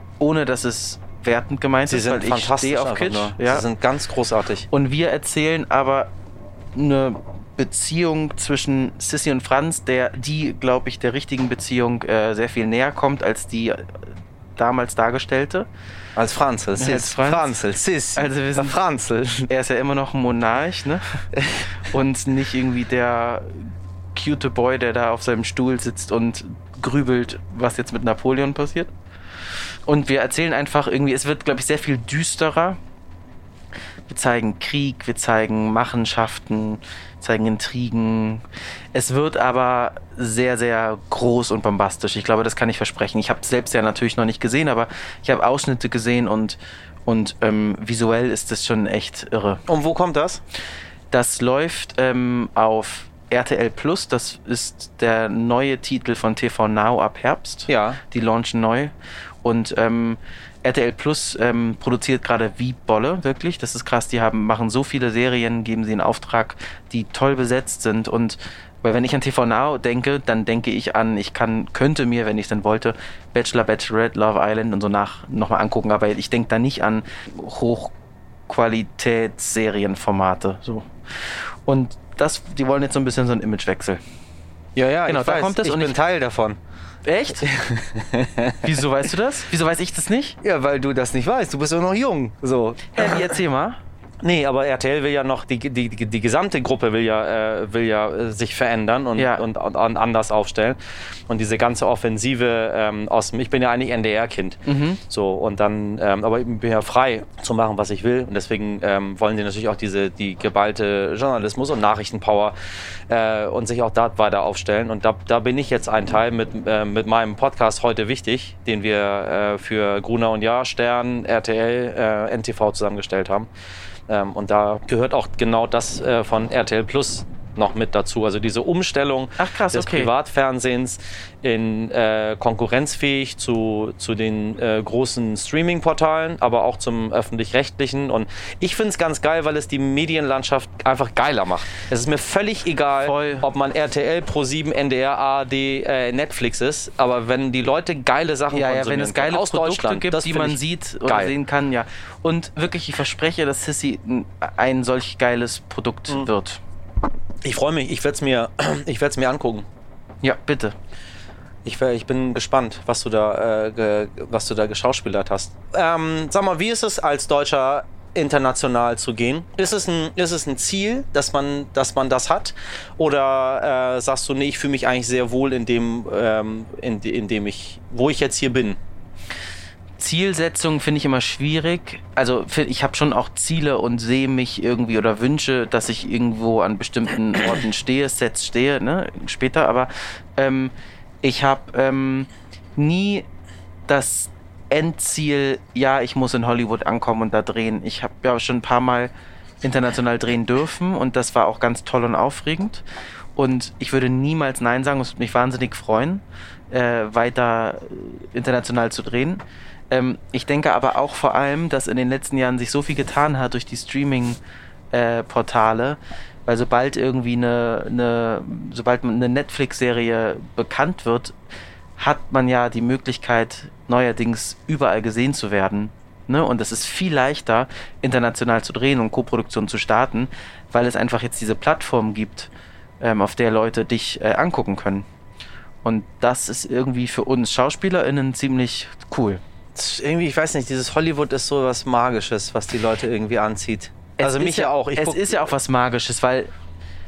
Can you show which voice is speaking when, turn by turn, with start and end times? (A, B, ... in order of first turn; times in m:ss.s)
0:00.2-0:03.6 A
0:01.9-0:04.7 B
0:04.7-0:06.1 A
0:06.7-0:15.7 A
0:16.2-0:19.5 B
0:16.8-0:17.5 A
0:18.1-0:18.8 A
0:19.5-0:21.2 A
0:21.7-0:28.9 A
0:29.8-0:32.8 A
0:34.1-0:49.6 A
0:49.7-0:50.4 B
0:51.1-0:58.9 A
0:57.7-0:58.0 B
0:59.4-1:17.9 A
1:18.5-1:24.0 A
1:24.7-1:26.6 B
1:25.1-1:26.0 A
1:27.0-1:27.6 A
1:27.4-1:28.7 B
1:28.6-1:30.4 A
1:30.4-1:33.4 B
1:32.9-1:33.8 A
1:34.2-2:03.5 B
1:39.2-1:39.4 A
1:44.6-1:45.0 A
2:04.1-2:31.3 B
2:09.4-2:10.1 A
2:23.0-2:23.5 A
2:28.5-2:36.6 A
2:37.4-2:39.7 B
2:40.2-2:40.7 A
2:41.6-2:58.8 B
3:00.0-3:13.3 A
3:13.9-3:19.1 A
3:19.6-3:22.8 A
3:23.4-3:34.4 A
3:34.9-3:41.3 A
3:42.0-3:55.0 A
3:55.8-3:59.4 A
3:59.7-4:05.5 B
4:04.2-4:06.5 A